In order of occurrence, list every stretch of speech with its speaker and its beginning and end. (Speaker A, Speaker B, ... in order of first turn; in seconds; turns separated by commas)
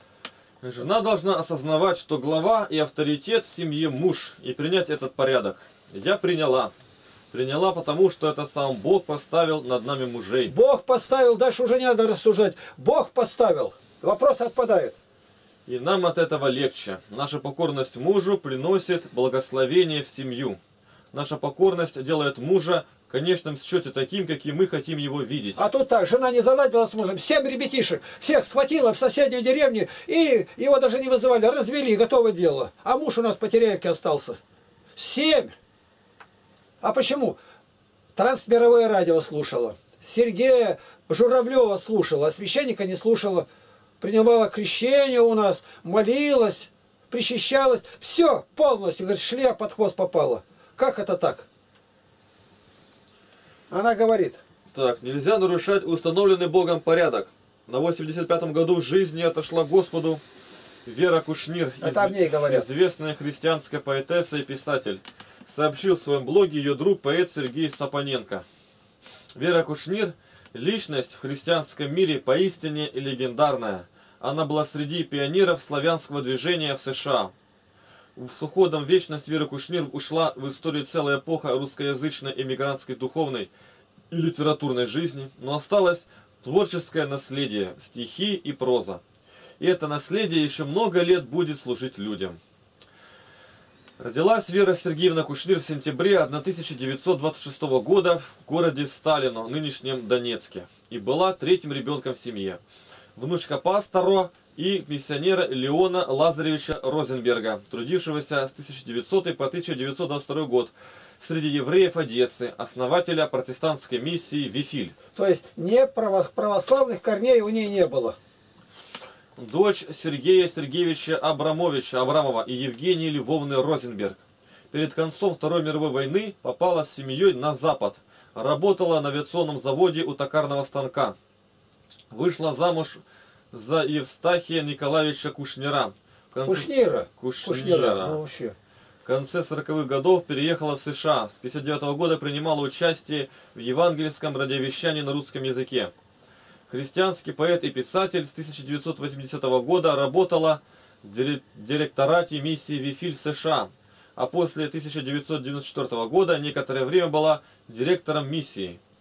Speaker A: 0.6-6.7, Speaker A: 7.3-10.5, Speaker B: 10.5-14.9, Speaker A: 15.7-20.6, Speaker A: 21.1-25.6, Speaker B: 25.6-34.4, Speaker B: 35.0-35.5, Speaker B: 36.8-37.4, Speaker B: 38.1-43.5, Speaker B: 44.0-51.5, Speaker B: 53.7-54.4, Speaker A: 54.7-60.2, Speaker A: 60.8-68.4, Speaker B: 61.8-62.7, Speaker A: 69.3-77.3, Speaker A: 78.2-83.5, Speaker A: 84.1-89.0, Speaker A: 89.6-92.4, Speaker A: 94.0-102.6, Speaker A: 103.2-114.9, Speaker B: 115.2-118.2, Speaker A: 119.4-124.2, Speaker A: 124.7-131.1, Speaker A: 132.1-133.0, Speaker A: 133.5-138.2, Speaker B: 136.4-138.6, Speaker A: 139.0-145.9, Speaker A: 146.7-158.8